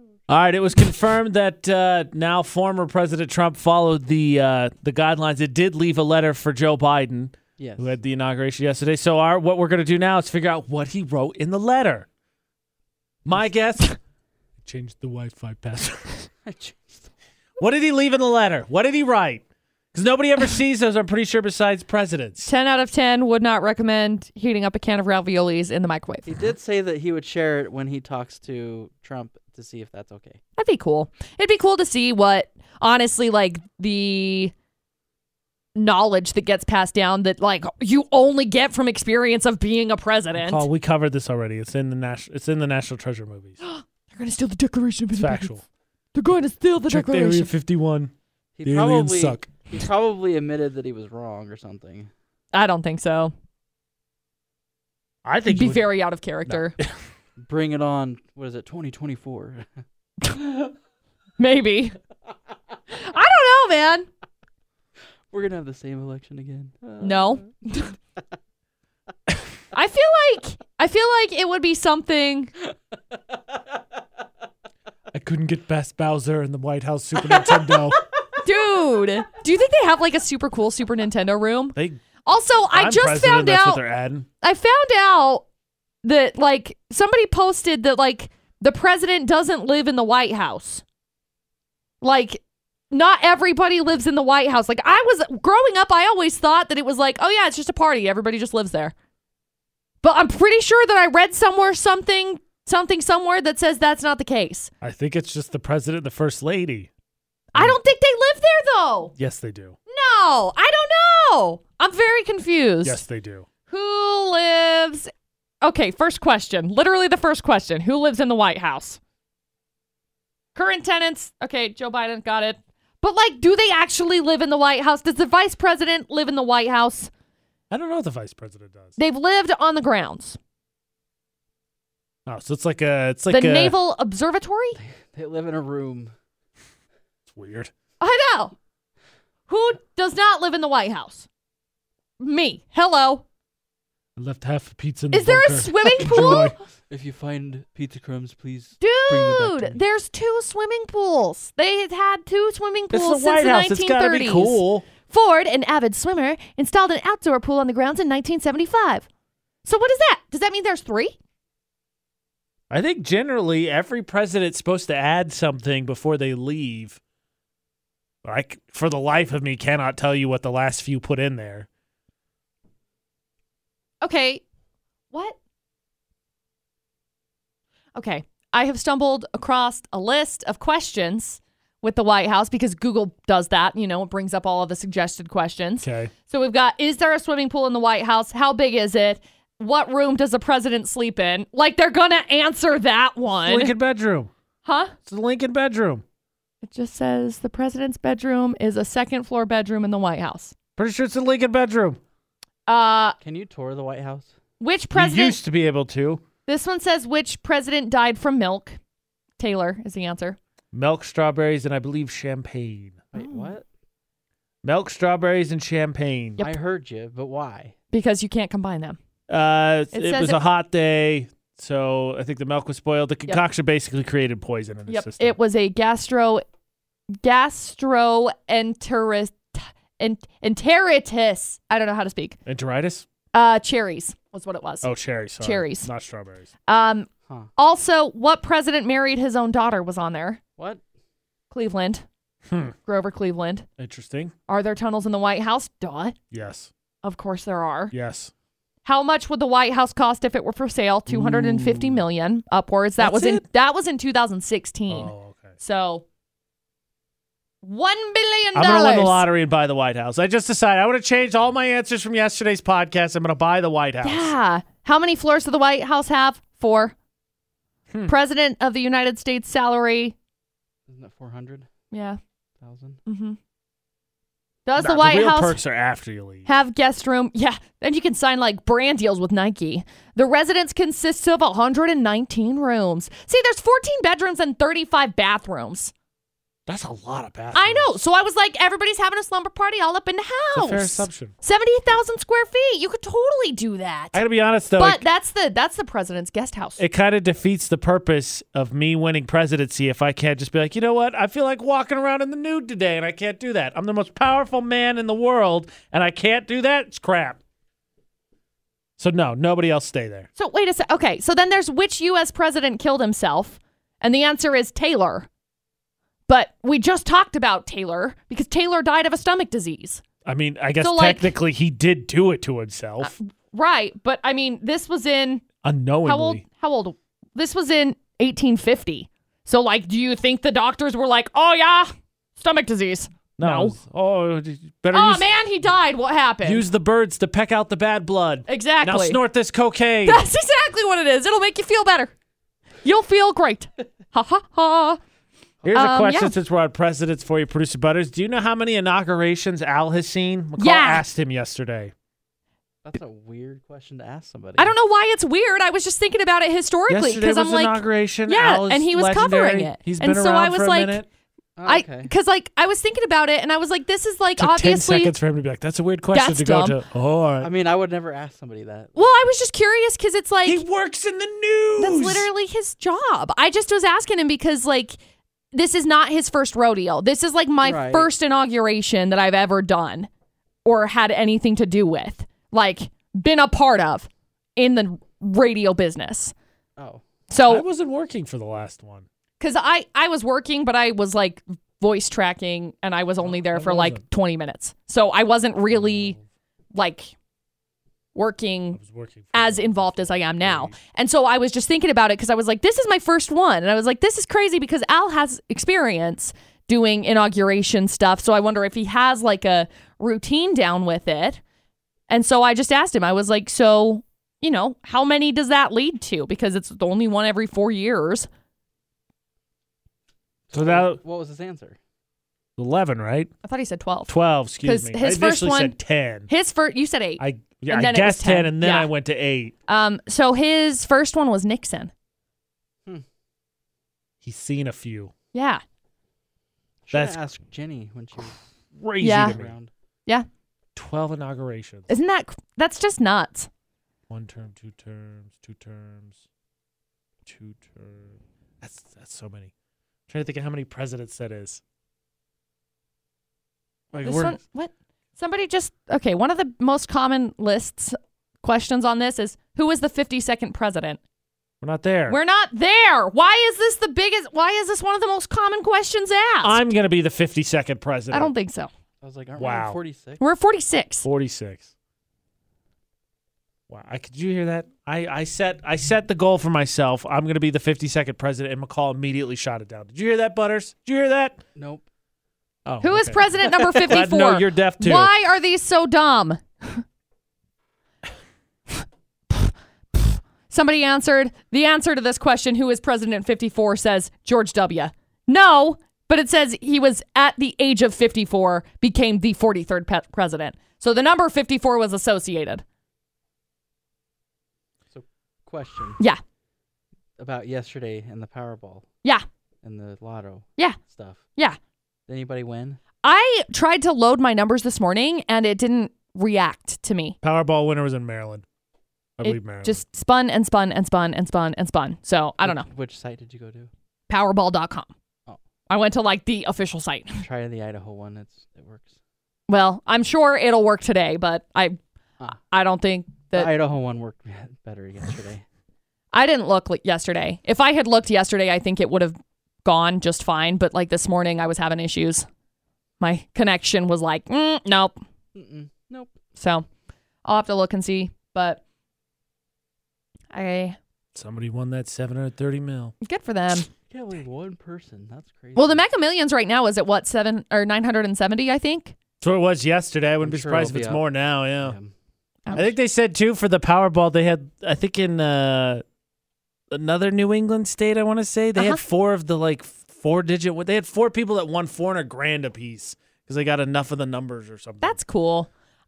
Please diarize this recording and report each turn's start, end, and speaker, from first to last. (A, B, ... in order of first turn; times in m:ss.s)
0:00.3-0:12.1 A
0:07.6-0:08.0 B
0:13.2-0:14.0 A
0:14.6-0:16.3 A
0:16.4-0:17.1 B
0:17.6-0:22.5 A
0:22.4-0:26.5 C
0:26.3-0:30.4 B
0:30.6-0:34.5 C
0:35.8-0:40.7 C
0:40.3-0:43.6 A
0:43.6-0:45.5 C
0:45.1-0:45.6 A
0:46.2-0:47.5 C
0:46.8-0:48.1 A
0:48.6-0:52.1 B
0:48.6-0:49.5 A
0:52.5-0:53.3 C
0:55.2-0:55.9 A
0:55.5-0:56.8 C
0:56.5-0:57.0 A
0:57.4-0:59.8 B
1:00.2-1:00.7 C
1:01.4-1:02.0 C
1:02.9-1:04.1 C
1:05.3-1:07.5 B
1:07.0-1:07.9 C
1:09.7-1:12.5 C
1:15.1-1:18.0 A
1:18.4-1:23.8 C
1:21.8-1:22.0 A
1:22.7-1:24.3 A
1:24.4-1:25.4 C
1:26.0-1:30.8 C
1:32.0-1:38.9 C
1:40.0-1:44.7 C
1:44.8-1:46.9 A
1:47.5-1:49.1 C
1:49.2-1:49.8 A
1:49.9-1:53.0 C
1:52.8-1:53.4 A
1:53.7-1:55.1 C
1:55.6-1:59.0 C
2:00.6-2:07.1 C
2:07.7-2:09.0 A
2:09.0-2:10.4 C
2:12.3-2:13.8 A
2:13.3-2:14.8 C
2:14.8-2:16.1 B
2:17.3-2:17.7 A
2:18.0-2:18.5 C
2:19.5-2:21.3 C
2:22.2-2:23.2 C
2:24.2-2:26.5 A
2:25.1-2:26.6 C
2:26.0-2:29.8 B
2:28.8-2:39.1 C
2:32.9-2:34.9 A
2:39.6-2:41.2 C
2:42.7-2:47.0 A
2:48.2-2:51.7 A
2:54.0-2:54.4 C
2:55.1-2:55.4 C
2:58.0-3:13.7 C
3:05.8-3:06.1 A
3:13.4-3:14.3 A
3:14.6-3:14.9 C
3:15.0-3:16.0 A
3:16.6-3:20.6 C
3:20.8-3:22.0 A
3:22.7-3:23.2 C
3:23.2-3:24.3 B
3:24.6-3:25.4 C
3:24.9-3:26.2 A
3:26.5-3:28.8 C
3:29.4-3:30.4 C
3:30.7-3:33.0 A
3:33.1-3:33.7 B
3:33.2-3:33.6 C
3:34.6-3:36.4 A
3:36.4-3:37.8 B
3:37.9-3:39.0 C
3:39.3-3:45.4 A
3:39.9-3:40.4 C
3:44.9-3:46.4 C
3:47.2-3:52.4 C
3:52.5-3:53.0 A
3:53.3-3:54.9 C
3:54.8-3:56.5 A
3:55.4-3:55.9 C
3:56.7-4:00.4 C
4:01.5-4:02.0 C
4:02.5-4:02.7 A
4:02.9-4:03.7 C
4:03.8-4:04.3 A
4:04.5-4:06.2 C
4:06.3-4:06.7 A
4:07.0-4:07.9 C
4:07.9-4:08.3 A
4:08.8-4:16.0 C
4:11.1-4:12.0 A
4:13.0-4:13.4 A
4:14.9-4:15.5 A
4:17.6-4:19.2 C
4:18.6-4:24.3 A
4:24.0-4:27.0 C
4:28.1-4:30.2 C
4:30.9-4:31.7 B
4:31.9-4:32.2 C
4:32.6-4:33.0 B
4:33.1-4:33.4 C
4:34.7-4:35.6 C
4:34.8-4:36.5 A
4:36.5-4:45.9 C
4:46.7-4:48.0 A
4:47.5-4:54.2 C
4:50.6-4:51.3 A
4:54.1-4:55.0 A
4:54.8-4:56.8 C
4:56.8-5:07.4 A
5:09.0-5:10.3 A
5:10.4-5:15.3 C
5:16.3-5:20.0 C
5:20.2-5:23.1 A
5:20.8-5:21.4 C
5:23.0-5:25.4 C
5:25.6-5:26.4 A
5:26.0-5:33.8 C
5:33.4-5:35.3 A
5:34.9-5:36.7 C
5:36.4-5:40.2 A
5:38.5-5:39.2 C
5:40.0-5:42.1 C
5:42.8-5:45.0 C
5:45.6-5:51.9 A
5:45.7-5:46.4 C
5:50.6-5:51.1 C
5:52.8-5:54.7 B
5:54.6-6:01.0 C
5:56.9-6:01.1 A
6:01.6-6:02.1 B
6:01.6-6:05.2 C
6:04.4-6:07.5 A
6:06.1-6:06.8 C
6:07.4-6:09.0 B
6:09.0-6:10.6 C
6:10.4-6:12.3 A
6:11.8-6:15.0 C
6:15.5-6:20.1 C
6:17.6-6:18.1 B
6:20.6-6:26.3 C
6:26.8-6:27.0 B
6:27.3-6:27.7 C
6:27.4-6:29.0 A
6:29.4-6:36.2 C
6:33.2-6:34.0 A
6:35.7-6:36.2 A
6:36.7-6:37.1 C
6:38.2-6:38.8 C
6:38.7-6:40.8 A
6:39.3-6:51.4 C
6:52.1-6:58.3 C
7:00.5-7:01.8 B
7:00.5-7:01.0 A
7:02.6-7:03.3 A
7:03.4-7:04.1 C
7:04.1-7:06.3 A
7:04.6-7:05.8 C
7:06.3-7:08.9 C
7:07.2-7:09.5 A
7:09.7-7:11.9 C
7:14.2-7:15.1 A
7:15.3-7:15.6 C
7:16.9-7:18.4 B
7:16.9-7:17.2 A
7:18.8-7:19.6 A
7:19.0-7:19.4 C
7:19.2-7:19.7 B
7:20.8-7:21.9 A
7:21.9-7:23.5 C
7:24.1-7:26.2 A
7:27.3-7:29.5 A
7:30.1-7:31.6 A
7:33.9-7:34.4 B
7:34.0-7:41.0 C
7:41.6-7:42.2 A
7:42.1-7:46.6 C
7:46.4-7:48.3 A
7:48.1-7:48.7 C
7:49.0-7:50.2 B
7:49.4-7:49.8 A
7:50.2-7:51.0 C
7:51.0-7:51.7 A
7:53.7-8:01.4 A
8:01.6-8:01.8 B
8:02.7-8:05.1 A
8:02.8-8:06.8 C
8:09.3-8:22.6 C
8:24.9-8:26.0 B
8:27.2-8:28.9 B
8:29.6-8:31.3 B
8:32.1-8:32.8 B
8:33.0-8:37.2 C
8:37.2-8:38.4 A
8:39.2-8:39.8 A
8:39.2-8:42.7 C
8:42.4-8:43.7 B
8:44.1-8:44.9 C
8:45.7-8:47.3 C
8:47.2-8:49.0 B
8:49.5-8:51.8 C
8:52.5-8:53.5 C
8:53.3-8:55.4 B
8:56.1-9:02.3 C
9:03.0-9:05.0 C
9:05.3-9:06.2 B
9:06.4-9:06.6 C
9:07.2-9:08.6 C
9:10.3-9:10.8 C
9:11.2-9:12.9 A
9:13.0-9:13.7 C
9:13.9-9:15.8 B
9:15.6-9:19.0 C
9:19.2-9:21.8 A
9:20.2-9:21.0 B
9:21.6-9:21.9 B
9:22.5-9:22.8 C
9:22.5-9:25.8 A
9:26.7-9:35.0 A
9:28.6-9:28.8 C
9:34.8-9:35.5 C